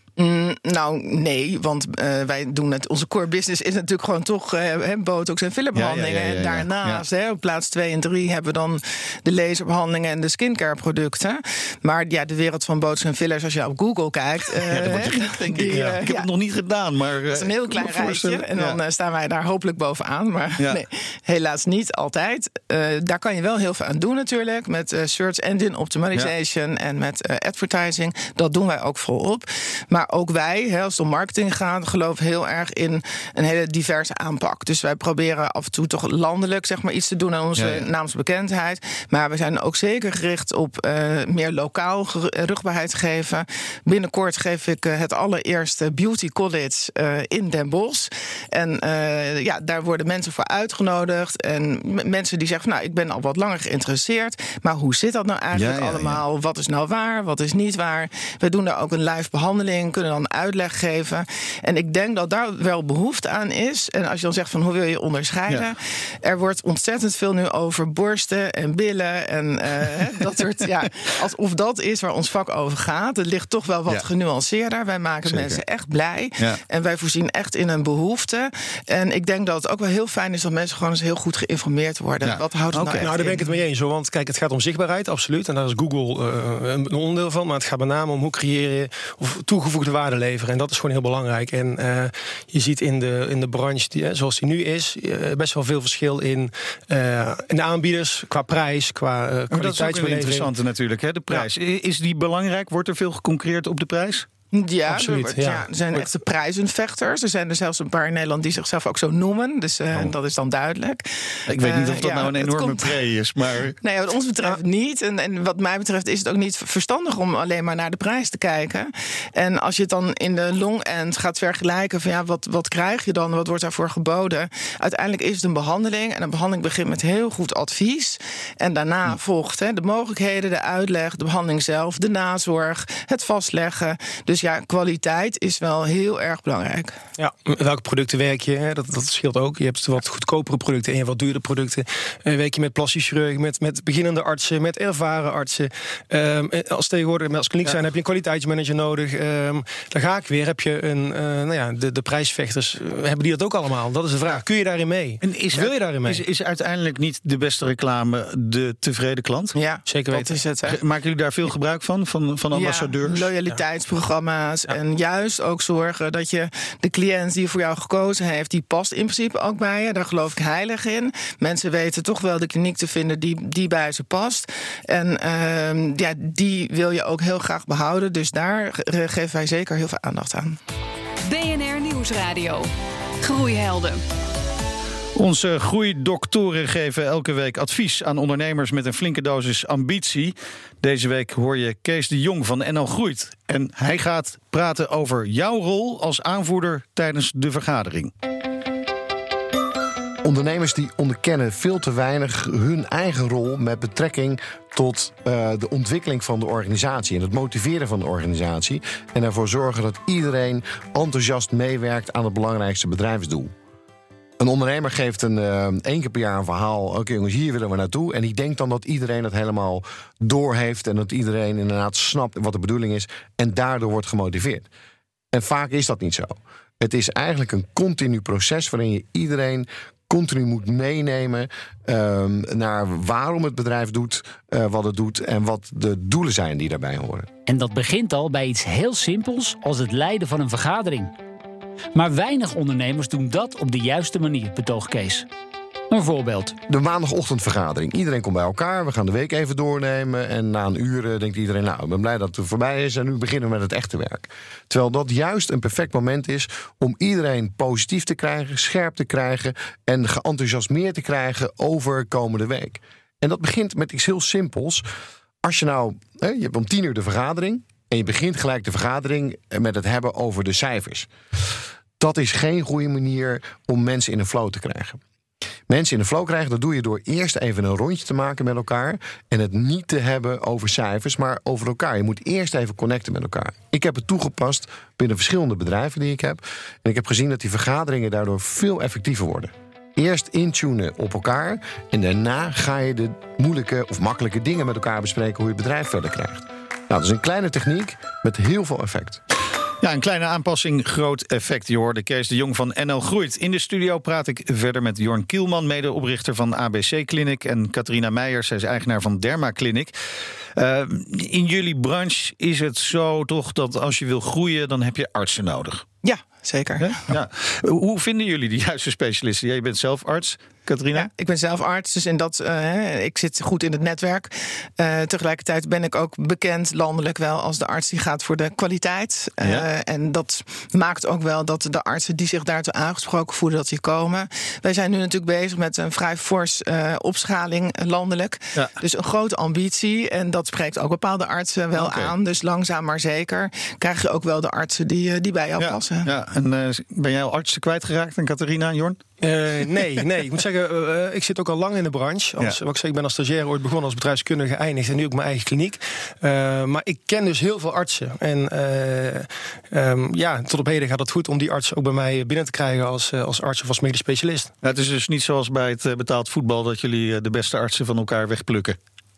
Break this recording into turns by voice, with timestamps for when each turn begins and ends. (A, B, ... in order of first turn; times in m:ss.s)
0:00.2-0:16.3 A
0:05.7-0:07.0 B
0:14.6-0:18.8 B
0:15.7-0:16.0 C
0:17.3-1:23.4 A
0:37.6-0:37.8 B
0:55.5-0:56.2 B
1:15.3-1:15.6 B
1:22.2-1:23.1 B
1:23.0-1:40.5 C
1:39.5-1:44.2 B
1:44.5-1:53.0 A
1:44.9-1:46.0 C
1:51.5-1:53.8 B
1:53.8-2:17.0 A
2:17.2-2:36.2 C
2:35.2-2:39.6 B
2:39.5-2:40.8 A
2:39.9-2:40.3 C
2:40.7-2:43.3 B
2:42.5-3:00.6 A
3:01.2-3:02.7 D
3:03.2-3:04.0 D
3:05.2-3:18.1 B
3:20.2-3:33.5 E
3:34.4-3:44.7 E
3:45.3-3:57.3 E
3:57.4-4:01.1 F
4:01.9-4:05.3 F
4:05.9-4:06.6 F
4:06.7-4:24.8 E
4:25.4-4:31.1 E
4:32.0-4:35.0 E
4:35.7-4:59.2 E
4:59.8-5:09.9 B
5:10.6-5:15.8 B
5:16.0-5:17.0 A
5:16.8-5:21.1 B
5:20.9-5:46.1 A
5:41.7-5:42.1 B
5:45.6-5:49.0 B
5:49.2-6:04.5 C
6:04.6-6:08.8 B